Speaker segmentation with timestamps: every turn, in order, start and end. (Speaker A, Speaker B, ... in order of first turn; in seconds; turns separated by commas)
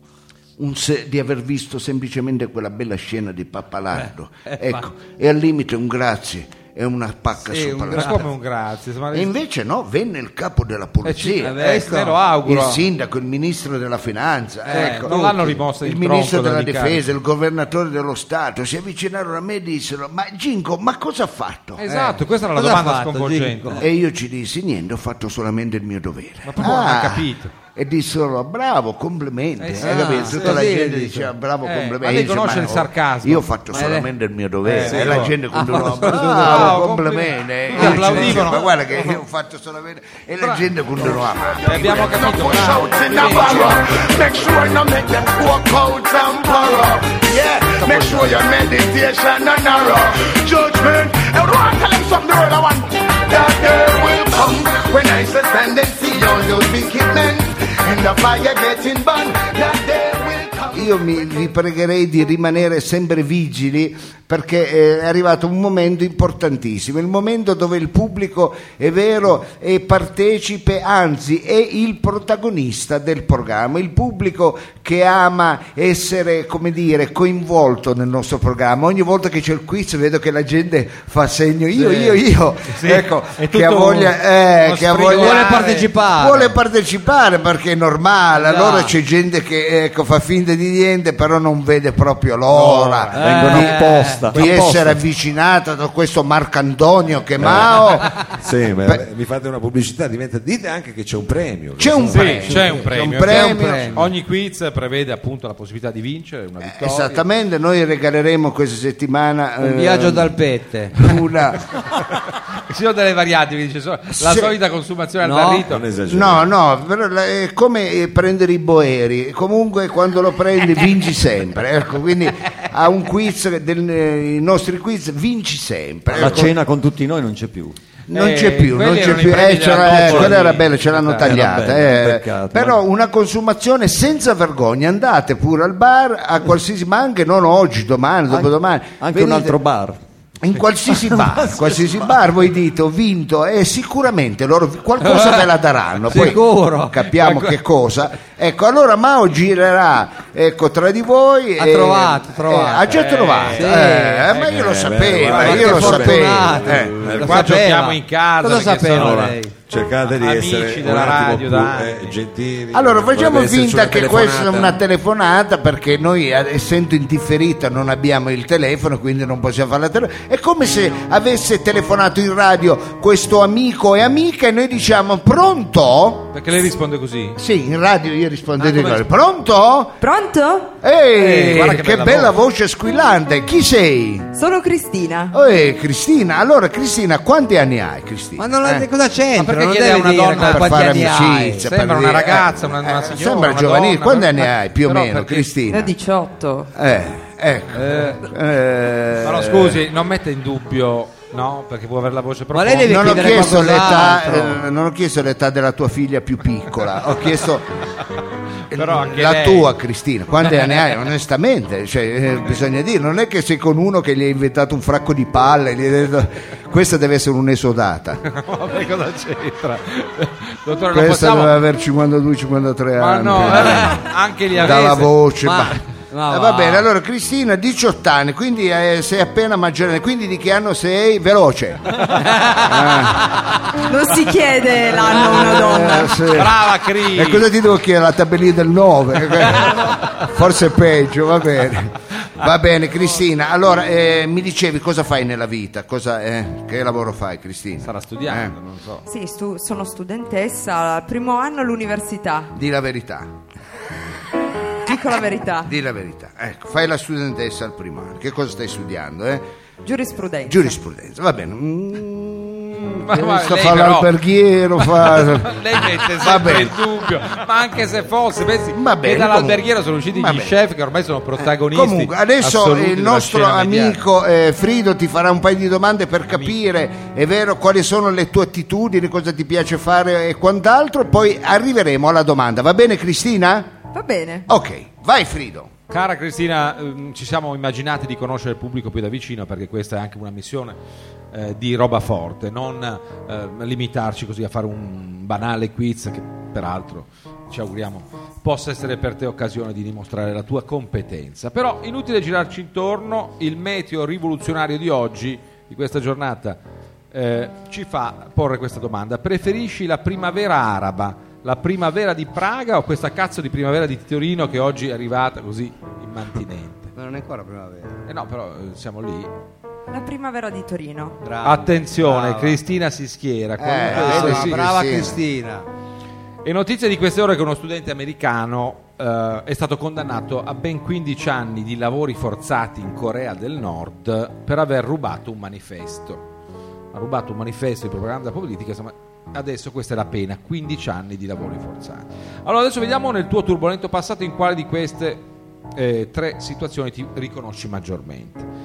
Speaker A: 0.6-8.3, Speaker B: 4.0-4.8, Speaker B: 7.5-8.2, Speaker C: 7.9-9.3, Speaker A: 9.1-11.8, Speaker C: 11.0-12.8, Speaker B: 11.4-12.3, Speaker A: 12.4-21.8, Speaker B: 14.7-15.2, Speaker C: 14.7-17.0, Speaker C: 21.8-23.8, Speaker B: 21.9-23.8, Speaker A: 23.8-42.1, Speaker C: 26.4-27.5, Speaker C: 29.6-30.8, Speaker B: 29.8-31.3, Speaker C: 31.6-33.5, Speaker B: 33.7-34.1, Speaker C: 34.6-35.3, Speaker B: 34.8-36.8, Speaker D: 34.8-35.3, Speaker C: 36.0-38.8, Speaker B: 37.8-38.4, Speaker C: 40.4-40.6, Speaker C: 41.6-43.8, Speaker E: 41.7-60.9, Speaker A: 43.2-43.7, Speaker A: 47.8-48.3, Speaker A: 60.7-98.2, Speaker C: 81.7-85.9, Speaker B: 85.1-86.5, Speaker B: 88.3-88.9, Speaker C: 92.5-93.7, Speaker F: 93.2-95.0, Speaker B: 93.2-94.3, Speaker C: 94.3-94.6, Speaker D: 97.4-102.5, Speaker A: 101.8-104.0, Speaker C: 102.1-107.2, Speaker B: 102.5-104.0, Speaker A: 106.6-110.4, Speaker B: 109.6-111.1, Speaker A: 111.0-111.8, Speaker C: 112.6-115.8, Speaker A: 114.1-114.6, Speaker B: 115.2-115.7, Speaker D: 115.7-116.5, Speaker A: 116.0-126.5, Speaker F: 126.2-127.7, Speaker A: 128.1-139.6, Speaker C: 128.1-131.4, Speaker F: 131.3-132.7, Speaker F: 139.0-140.0, Speaker A: 140.4-157.0, Speaker B: 145.0-145.4, Speaker B: 146.1-147.0, Speaker C: 147.1-147.6, Speaker B: 151.6-153.0, Speaker C: 152.9-153.8, Speaker B: 153.5-154.4, Speaker D: 154.3-157.6, Speaker C: 155.2-156.2, Speaker B: 155.4-159.5, Speaker C: 157.2-159.4, Speaker D: 159.0-164.8, Speaker C: 160.0-162.2, Speaker A: 162.7-176.3, Speaker C: 176.3-177.4, Speaker A: 177.4-180.0, Speaker C: 178.6-179.0, Speaker G: 180.0-180.7, Speaker A: 180.8-184.3, Speaker C: 181.1-182.3, Speaker G: 184.3-185.4, Speaker A: 185.3-188.9, Speaker B: 188.4-191.7, Speaker C: 189.3-195.5, Speaker A: 190.4-195.9, Speaker G: 195.7-196.7, Speaker A: 196.7-199.8, Speaker B: 197.7-198.2, Speaker C: 199.2-203.8, Speaker B: 202.5-204.6, Speaker A: 202.8-207.8, Speaker C: 208.7-209.7, Speaker A: 208.7-218.2, Speaker C: 218.2-221.6, Speaker A: 220.9-233.4, Speaker C: 223.0-225.1, Speaker B: 225.4-226.8, Speaker B: 232.1-233.1, Speaker G: 233.8-236.4, Speaker A: 234.9-248.6, Speaker C: 236.3-237.5, Speaker C: 247.8-249.0, Speaker G: 249.1-252.5, Speaker A: 252.5-253.4, Speaker G: 254.8-255.7, Speaker A: 255.7-259.4, Speaker G: 259.8-260.8, Speaker A: 260.4-266.8, Speaker C: 263.0-264.1, Speaker C: 264.8-274.0, Speaker A: 268.7-270.6, Speaker A: 271.4-283.7, Speaker G: 283.9-284.5, Speaker A: 284.5-285.7, Speaker C: 285.9-290.8, Speaker C: 291.3-306.6, Speaker C: 307.1-316.9, Speaker B: 316.9-318.0, Speaker C: 318.1-319.3, Speaker G: 319.9-321.2, Speaker B: 321.2-322.6, Speaker C: 321.4-324.6, Speaker A: 323.6-325.2, Speaker B: 323.9-325.6, Speaker C: 326.4-336.2, Speaker C: 336.9-348.5